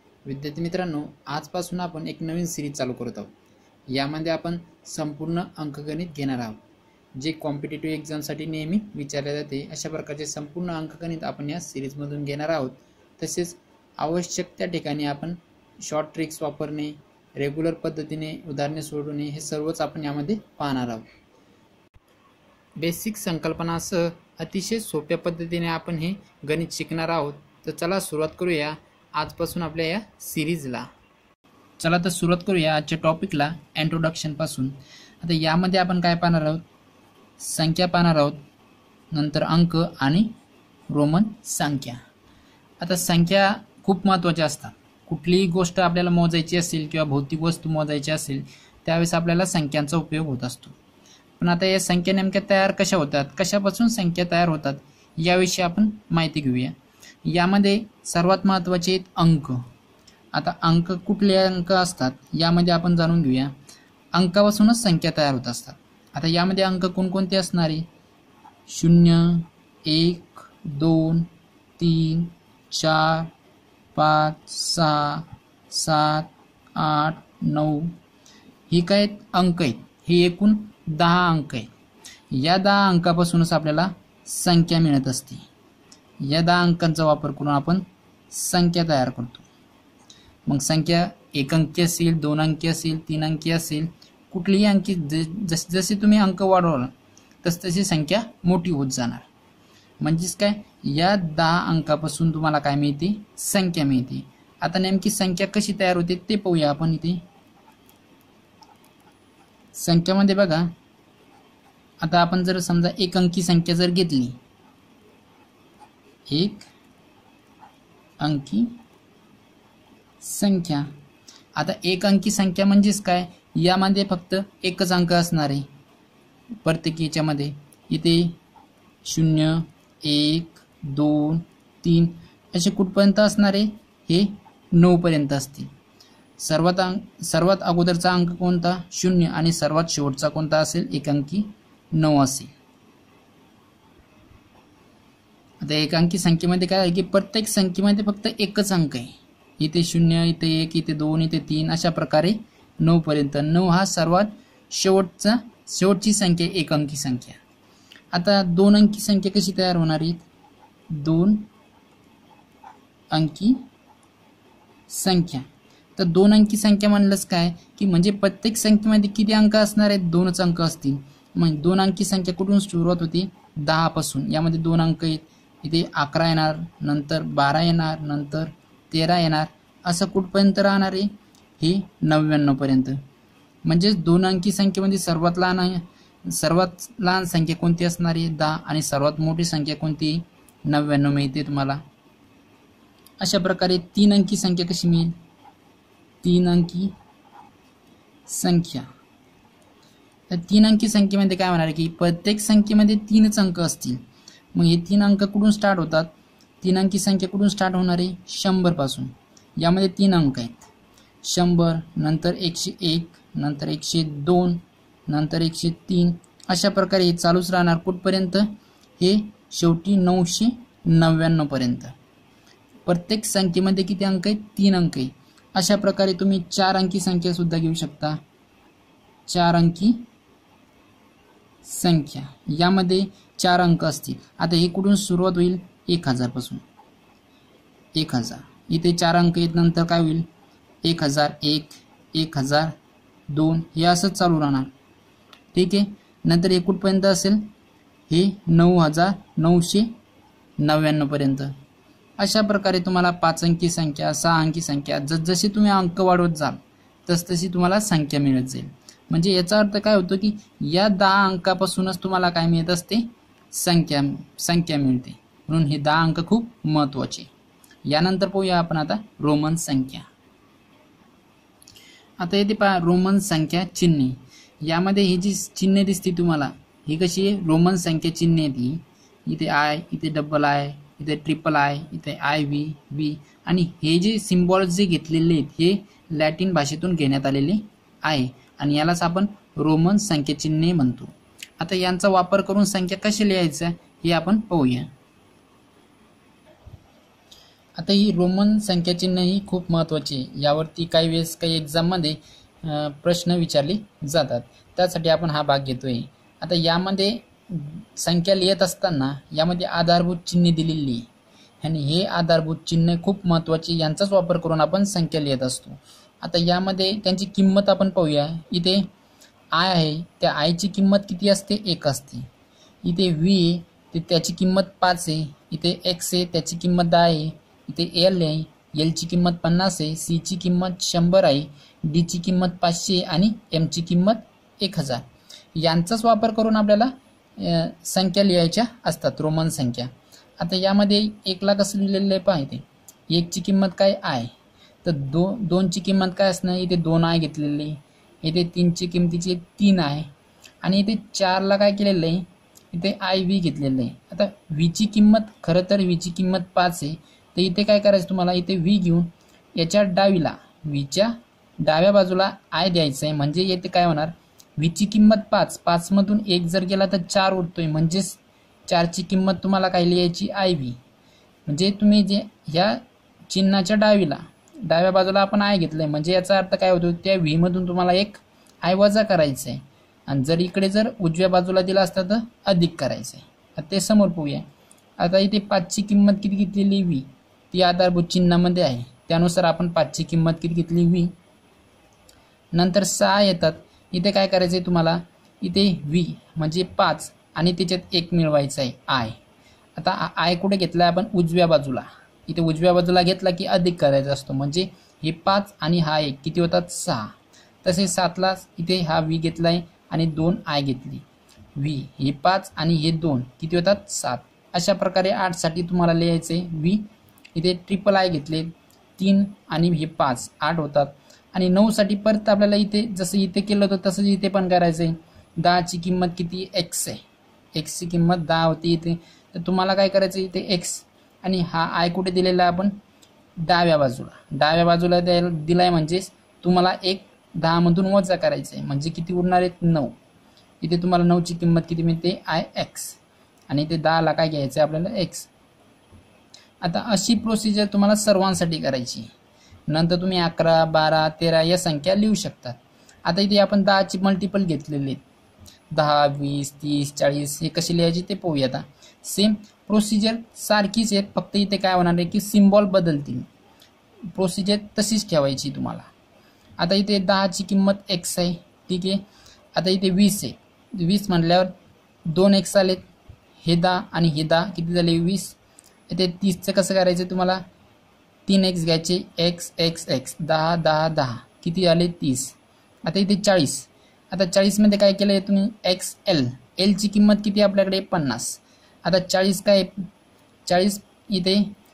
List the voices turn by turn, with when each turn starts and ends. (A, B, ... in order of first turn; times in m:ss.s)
0:00.2-0:03.3 A
0:03.9-0:06.6 A
0:07.2-0:21.1 A
0:22.8-0:30.9 A
0:31.8-0:36.6 A
0:37.4-0:38.4 A
0:39.1-0:40.3 A
0:40.9-0:42.0 A
0:42.8-0:50.7 A
0:51.4-0:56.7 A
0:57.2-0:59.6 A
1:00.3-1:03.5 A
1:04.1-1:07.9 A
1:08.7-1:13.3 A
1:13.9-1:17.9 A
1:18.7-1:21.7 A
1:22.3-1:25.4 A
1:26.2-1:29.4 A
1:30.4-1:36.9 A
1:37.4-1:39.3 A
1:40.0-1:47.2 A
1:49.7-1:50.7 A
1:52.0-1:54.4 A
1:56.3-1:56.7 A
1:58.2-1:58.7 A
2:00.2-2:00.9 A
2:01.6-2:05.7 A
2:06.6-2:08.4 A
2:09.0-2:15.7 A
2:16.4-2:22.5 A
2:25.6-2:37.4 A
2:38.1-2:40.2 A
2:40.9-2:41.5 A
2:43.1-2:43.6 A
2:44.9-3:03.0 A
3:03.6-3:11.8 A
3:13.2-3:15.1 A
3:16.2-3:16.9 A
3:18.3-3:18.9 A
3:20.3-3:24.0 A
3:24.5-3:26.1 A
3:26.6-3:30.7 A
3:31.2-3:41.9 A
3:42.8-3:48.2 A
3:49.3-3:50.0 A
3:51.6-3:56.6 A
3:57.9-4:00.3 A
4:00.8-4:02.7 A
4:03.3-4:04.7 A
4:05.5-4:07.4 A
4:08.1-4:09.9 A
4:10.6-4:11.5 A
4:12.2-4:27.3 A
4:27.8-4:30.1 A
4:32.2-4:54.9 A
4:57.8-5:11.0 A
5:11.6-5:18.9 A
5:19.5-5:22.2 A
5:22.8-5:35.0 A
5:35.5-5:44.3 A
5:44.8-5:50.1 A
5:50.6-6:10.8 A
6:11.4-6:24.4 A
6:25.0-6:31.1 A
6:32.5-6:39.2 A
6:39.8-6:51.0 A
6:51.6-7:07.0 A
7:07.5-7:12.7 A
7:13.4-7:19.9 A
7:20.6-7:25.3 A
7:26.6-7:29.1 A
7:29.7-7:35.0 A
7:35.7-7:43.2 A
7:44.1-7:45.9 A
7:46.6-7:49.0 A
7:49.5-7:51.5 A
7:52.1-7:55.4 A
7:55.9-7:57.4 A
7:58.3-8:09.8 A
8:10.4-8:11.5 A